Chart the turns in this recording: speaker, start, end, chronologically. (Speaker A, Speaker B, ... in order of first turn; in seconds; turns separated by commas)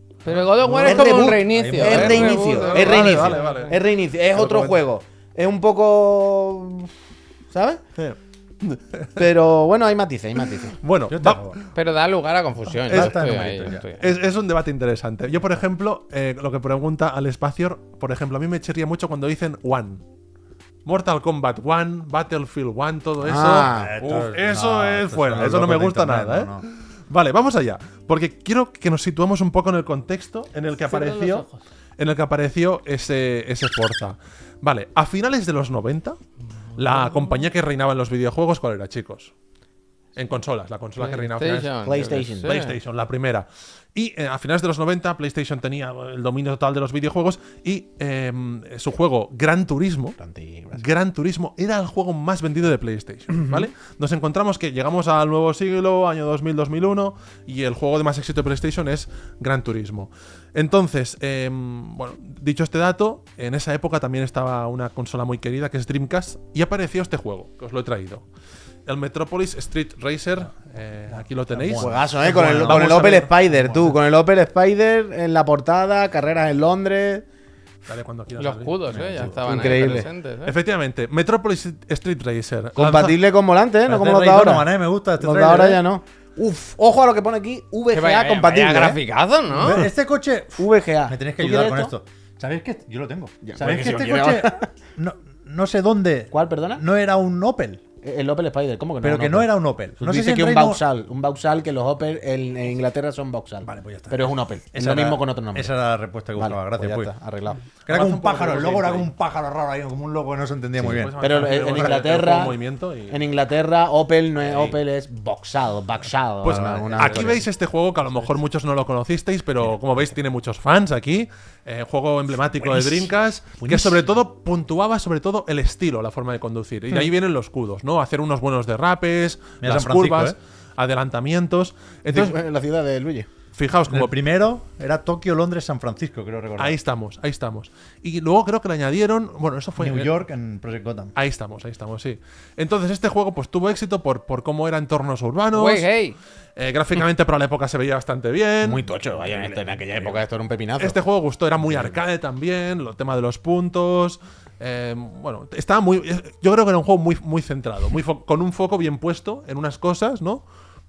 Speaker A: 0.2-3.8, Speaker B: 0.6-3.4, Speaker C: 0.8-6.9, Speaker D: 1.9-3.8, Speaker D: 4.3-4.8, Speaker C: 7.5-7.8, Speaker D: 8.0-9.2, Speaker C: 9.2-10.8, Speaker D: 10.8-11.6, Speaker B: 11.1-11.6, Speaker A: 11.7-14.1, Speaker B: 12.9-13.8, Speaker D: 12.9-20.0, Speaker D: 20.9-31.5, Speaker C: 23.2-23.9, Speaker B: 23.5-26.6, Speaker A: 30.9-31.6, Speaker D: 32.0-36.2, Speaker D: 36.8-39.3, Speaker A: 36.8-37.3, Speaker D: 40.2-50.2, Speaker A: 41.0-42.8, Speaker C: 41.9-42.5, Speaker C: 50.2-50.8, Speaker D: 50.8-68.2, Speaker D: 68.9-73.3, Speaker B: 71.1-74.0, Speaker C: 71.8-77.2, Speaker D: 77.9-78.8, Speaker A: 78.4-80.5, Speaker B: 78.9-79.7, Speaker C: 79.5-80.1, Speaker D: 79.6-83.2, Speaker C: 82.8-89.0, Speaker B: 83.8-85.8, Speaker A: 87.9-89.8, Speaker B: 89.6-97.8, Speaker C: 90.6-91.9, Speaker C: 93.5-94.7, Speaker C: 96.3-96.8, Speaker C: 98.0-105.7, Speaker B: 99.0-100.8, Speaker B: 103.6-107.1, Speaker C: 106.4-107.6, Speaker B: 107.8-112.0, Speaker D: 107.9-109.1, Speaker D: 110.8-113.2, Speaker C: 111.2-112.6, Speaker C: 113.1-117.4, Speaker D: 114.4-114.8, Speaker D: 116.4-132.4, Speaker B: 116.4-117.5, Speaker B: 122.6-124.1, Speaker B: 129.6-130.4, Speaker C: 132.1-133.3, Speaker D: 133.6-134.1, Speaker B: 133.9-136.8, Speaker D: 136.6-140.2, Speaker B: 139.8-141.1, Speaker D: 141.2-145.9, Speaker A: 145.5-146.2, Speaker D: 146.6-150.2, Speaker C: 148.6-151.0, Speaker D: 150.8-160.4